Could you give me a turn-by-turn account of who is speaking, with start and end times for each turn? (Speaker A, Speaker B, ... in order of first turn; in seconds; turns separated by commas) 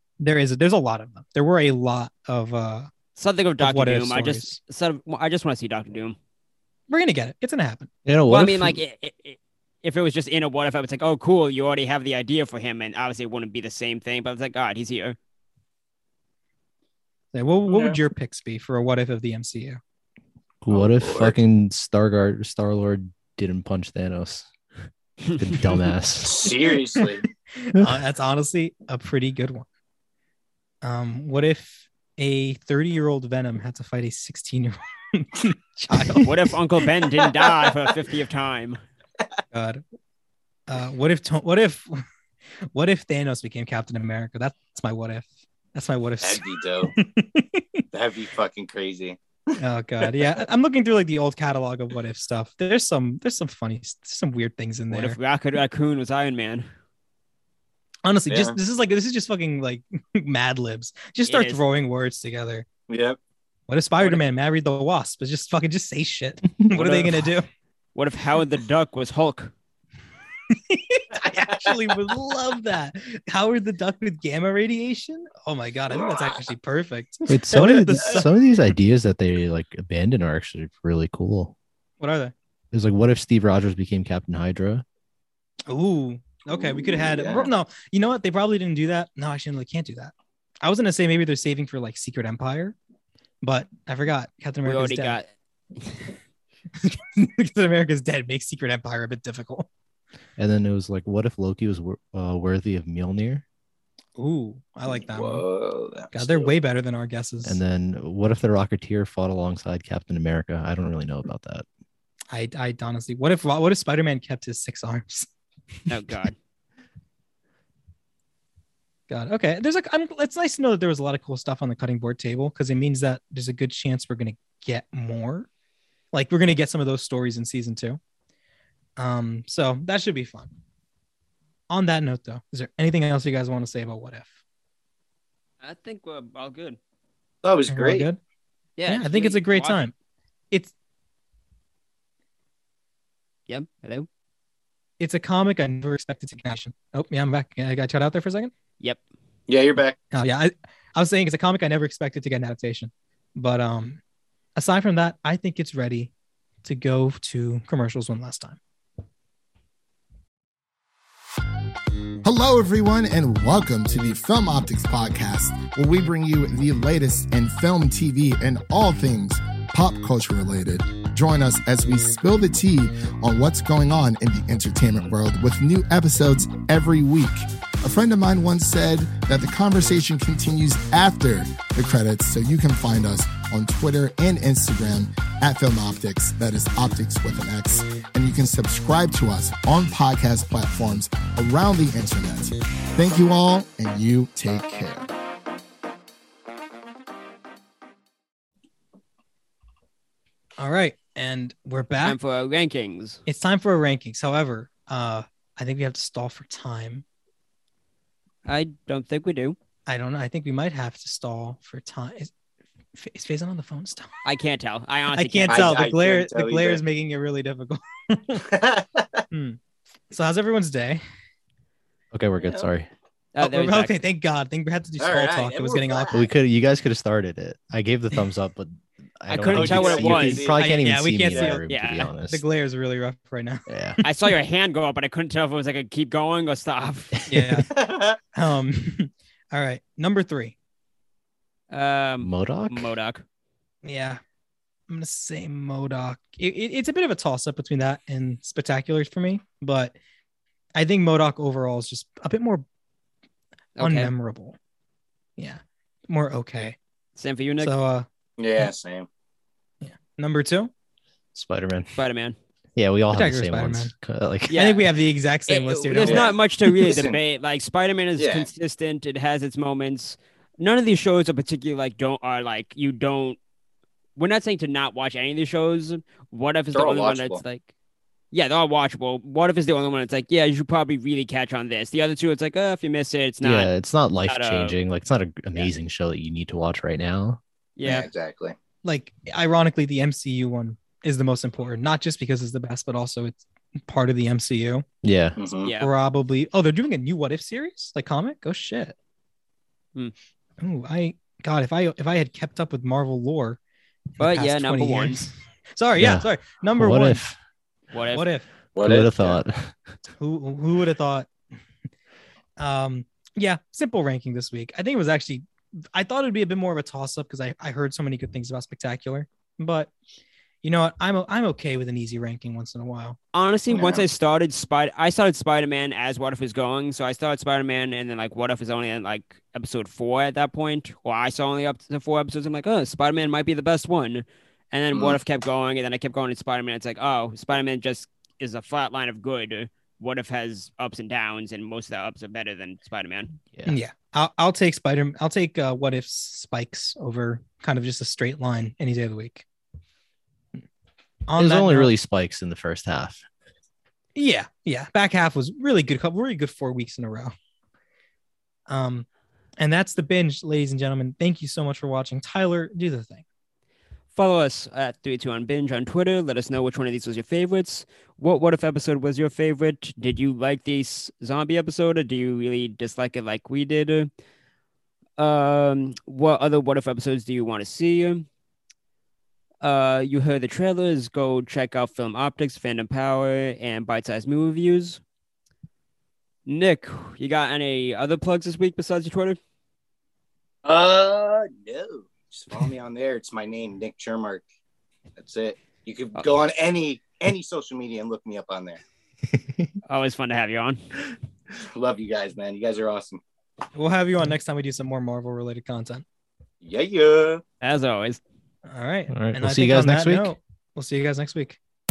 Speaker A: 0.2-2.9, Speaker B: 3.2-6.2, Speaker A: 3.6-4.6, Speaker A: 6.9-7.9, Speaker C: 8.1-8.8, Speaker B: 8.3-15.2, Speaker A: 17.3-19.8, Speaker D: 17.7-18.0, Speaker C: 20.6-24.5, Speaker D: 20.7-21.4, Speaker C: 25.4-26.5, Speaker D: 26.2-27.2, Speaker A: 27.6-29.7, Speaker A: 30.8-36.4, Speaker B: 36.2-38.8, Speaker A: 39.5-39.8, Speaker A: 40.7-42.0, Speaker A: 42.7-47.8, Speaker D: 46.2-47.0, Speaker D: 47.9-49.2, Speaker A: 49.6-55.2, Speaker B: 54.9-56.7, Speaker A: 58.0-62.7, Speaker D: 58.3-58.6, Speaker B: 61.3-61.6, Speaker D: 62.9-63.2, Speaker A: 63.7-67.5, Speaker B: 66.8-67.0, Speaker B: 68.0-69.5, Speaker A: 70.5-78.3, Speaker D: 71.2-71.7, Speaker D: 75.9-76.3, Speaker C: 77.3-81.5, Speaker A: 82.0-82.3, Speaker C: 82.7-84.8, Speaker A: 85.7-92.8, Speaker D: 86.5-87.5, Speaker A: 93.4-95.2, Speaker B: 94.7-96.1, Speaker A: 96.8-99.7, Speaker C: 100.4-103.4, Speaker A: 104.2-105.4, Speaker D: 104.9-106.5, Speaker A: 106.1-107.6, Speaker C: 107.5-111.7, Speaker A: 112.3-115.3, Speaker B: 115.9-116.3, Speaker A: 119.1-125.5, Speaker A: 126.1-128.0, Speaker A: 129.0-130.5, Speaker A: 131.7-134.3, Speaker B: 135.6-136.8, Speaker D: 137.4-138.1, Speaker A: 137.7-138.2, Speaker B: 138.8-139.8, Speaker A: 138.9-139.9, Speaker B: 143.5-144.1, Speaker A: 145.0-148.5, Speaker D: 149.5-150.0, Speaker A: 150.1-154.0, Speaker A: 154.6-156.1, Speaker A: 156.6-158.6, Speaker E: 162.2-195.1, Speaker A: 200.6-202.2, Speaker B: 202.0-203.2, Speaker A: 203.3-207.0, Speaker B: 208.5-209.6, Speaker A: 209.9-212.3, Speaker A: 213.0-214.1, Speaker B: 214.2-215.9, Speaker A: 215.1-218.4, Speaker D: 215.5-216.8, Speaker D: 218.4-219.2, Speaker A: 219.3-219.6, Speaker A: 220.1-221.0, Speaker C: 222.1-222.9, Speaker D: 222.4-222.7, Speaker B: 223.3-223.9, Speaker A: 223.4-226.3, Speaker D: 225.0-226.2, Speaker C: 226.1-232.4, Speaker B: 229.3-230.5, Speaker D: 229.5-230.6, Speaker A: 230.6-231.7, Speaker B: 231.7-232.1, Speaker A: 232.3-234.1, Speaker C: 233.7-234.0, Speaker B: 234.0-237.2, Speaker A: 237.2-237.7, Speaker D: 237.7-238.2, Speaker A: 238.3-240.6, Speaker B: 241.7-243.2, Speaker C: 242.2-242.9, Speaker A: 243.8-244.2, Speaker A: 244.9-250.0, Speaker A: 250.8-252.6, Speaker B: 253.8-254.1, Speaker A: 253.8-254.6, Speaker A: 255.4-256.8, Speaker B: 257.2-257.7, Speaker A: 257.6-258.1, Speaker D: 258.4-259.1, Speaker A: 259.8-260.7, Speaker C: 261.4-261.9, Speaker B: 262.0-262.4, Speaker C: 262.8-264.6, Speaker A: 263.1-263.9, Speaker B: 264.5-264.8, Speaker A: 264.5-266.3, Speaker B: 265.5-273.4, Speaker D: 266.0-267.2, Speaker D: 268.2-268.5, Speaker B: 274.2-277.7, Speaker D: 276.7-277.4, Speaker B: 278.3-283.7, Speaker C: 283.4-287.4, Speaker B: 284.3-284.8, Speaker B: 287.8-288.1, Speaker D: 287.8-288.6, Speaker A: 288.8-294.9, Speaker C: 295.0-295.4, Speaker D: 295.4-295.7, Speaker B: 295.6-295.9, Speaker A: 295.8-299.0, Speaker A: 300.6-303.6, Speaker A: 304.2-307.2, Speaker B: 304.2-305.2, Speaker C: 306.0-307.4, Speaker B: 307.9-308.2, Speaker A: 308.1-308.4, Speaker D: 308.8-309.4, Speaker C: 308.8-309.8, Speaker A: 310.2-311.3, Speaker A: 312.6-319.9, Speaker A: 320.6-323.2, Speaker B: 323.3-343.3, Speaker D: 323.7-324.1, Speaker A: 343.7-349.4, Speaker A: 351.3-351.9, Speaker C: 351.4-353.2, Speaker A: 354.1-357.3, Speaker A: 358.7-359.1, Speaker A: 359.6-363.2, Speaker B: 364.2-374.1, Speaker B: 375.2-378.3, Speaker B: 379.6-385.0, Speaker B: 386.5-389.4, Speaker D: 390.6-394.4, Speaker D: 395.2-398.8, Speaker C: 399.3-399.7, Speaker B: 399.9-400.8, Speaker D: 401.6-403.2, Speaker A: 403.8-406.0, Speaker D: 406.6-407.4, Speaker B: 407.6-408.2, Speaker A: 408.6-411.6, Speaker C: 409.1-410.3